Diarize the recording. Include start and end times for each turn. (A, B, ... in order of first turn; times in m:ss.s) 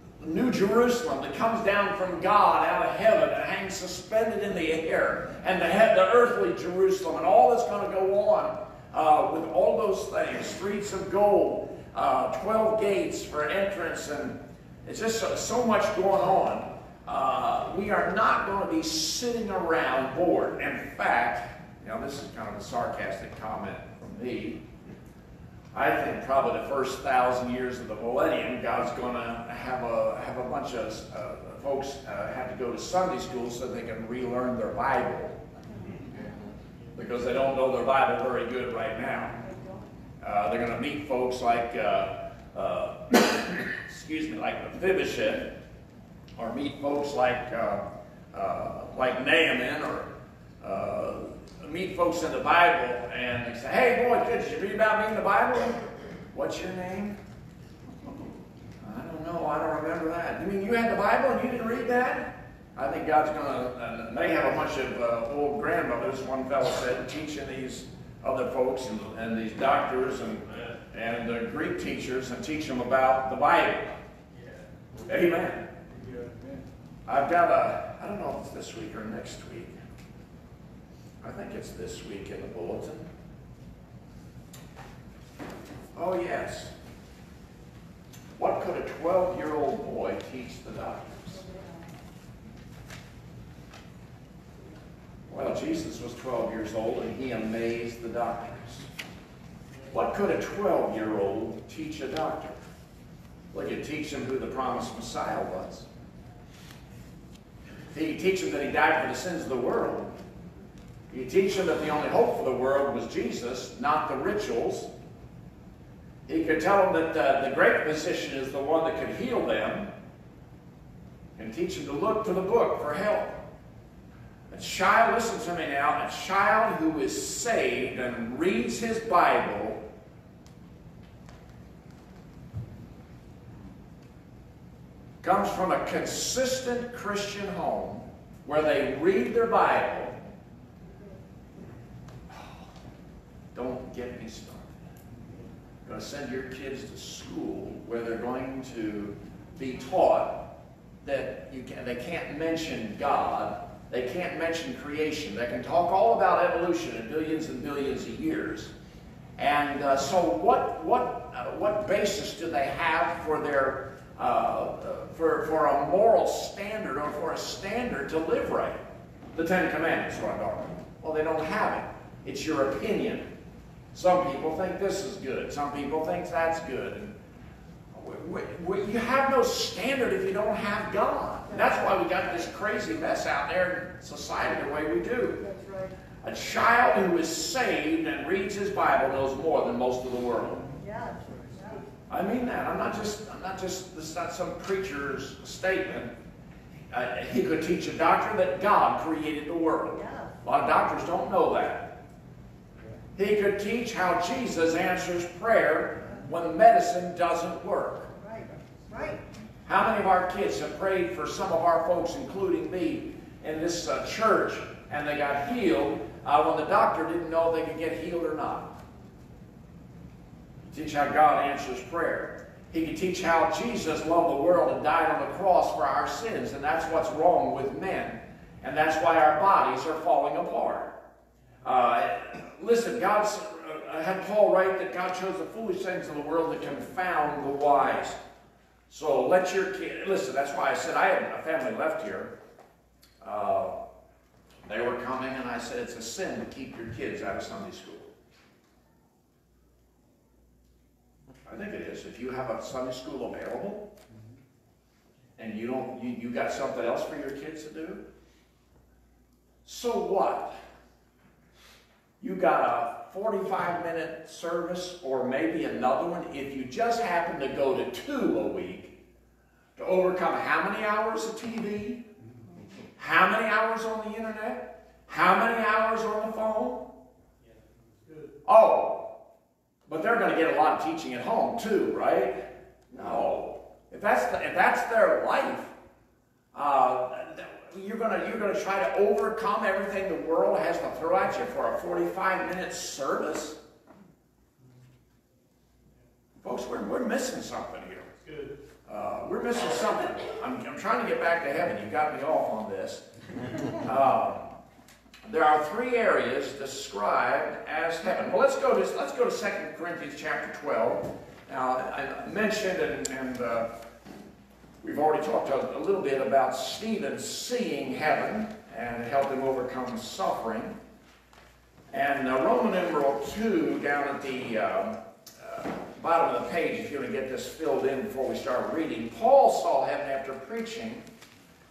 0:00.2-0:24.6 A
0:25.7-0:35.4 A
0:36.9-0:39.4 A
0:39.4-0:39.9 B
0:40.2-0:45.5 A
0:46.4-0:50.1 A
0:50.6-0:57.2 A
0:58.8-1:13.9 A
1:10.5-1:10.7 C
1:14.3-1:14.6 C
1:15.1-1:15.7 A
1:15.9-1:16.3 C
1:17.1-1:19.7 A
1:21.2-1:23.1 A
1:25.9-1:26.7 A
1:28.4-1:31.4 A
1:31.4-1:31.9 B
1:35.3-1:38.9 A
1:39.9-1:42.6 A
1:43.5-1:45.8 A
1:47.9-1:50.1 A
1:51.1-1:54.9 A
1:56.3-1:59.9 A
2:01.4-2:03.4 A
2:04.5-2:09.8 A
2:15.2-2:20.2 A
2:22.3-2:22.6 A
2:23.5-2:24.7 A
2:25.8-2:30.5 A
2:31.0-2:38.7 A
2:39.4-2:48.8 A
2:49.3-2:53.3 A
2:53.9-2:57.1 A
2:57.9-3:05.4 A
3:01.5-3:02.1 B
3:05.4-3:05.9 B
3:06.2-3:10.7 A
3:10.8-3:11.8 B
3:12.1-3:16.1 A
3:16.9-3:21.9 A
3:19.9-3:20.3 B
3:23.2-3:28.1 A
3:28.2-3:29.2 B
3:29.6-3:38.8 A
3:40.7-3:50.9 A
3:51.6-3:58.2 A
3:58.9-4:02.3 A
4:03.2-4:03.8 A
4:04.7-4:08.1 A
4:11.4-4:13.9 A
4:15.4-4:18.0 A
4:19.6-4:20.5 A
4:22.2-4:28.9 A
4:29.8-4:32.0 A
4:33.0-4:36.8 A
4:37.4-4:38.3 C
4:38.4-4:39.1 A
4:39.9-4:45.7 A
4:46.5-4:53.6 A
4:56.4-4:58.1 A
4:58.2-4:58.5 C
4:58.8-5:03.0 A
5:03.6-5:04.4 A
5:05.2-5:13.7 A
5:14.8-5:20.8 A
5:21.9-5:31.0 A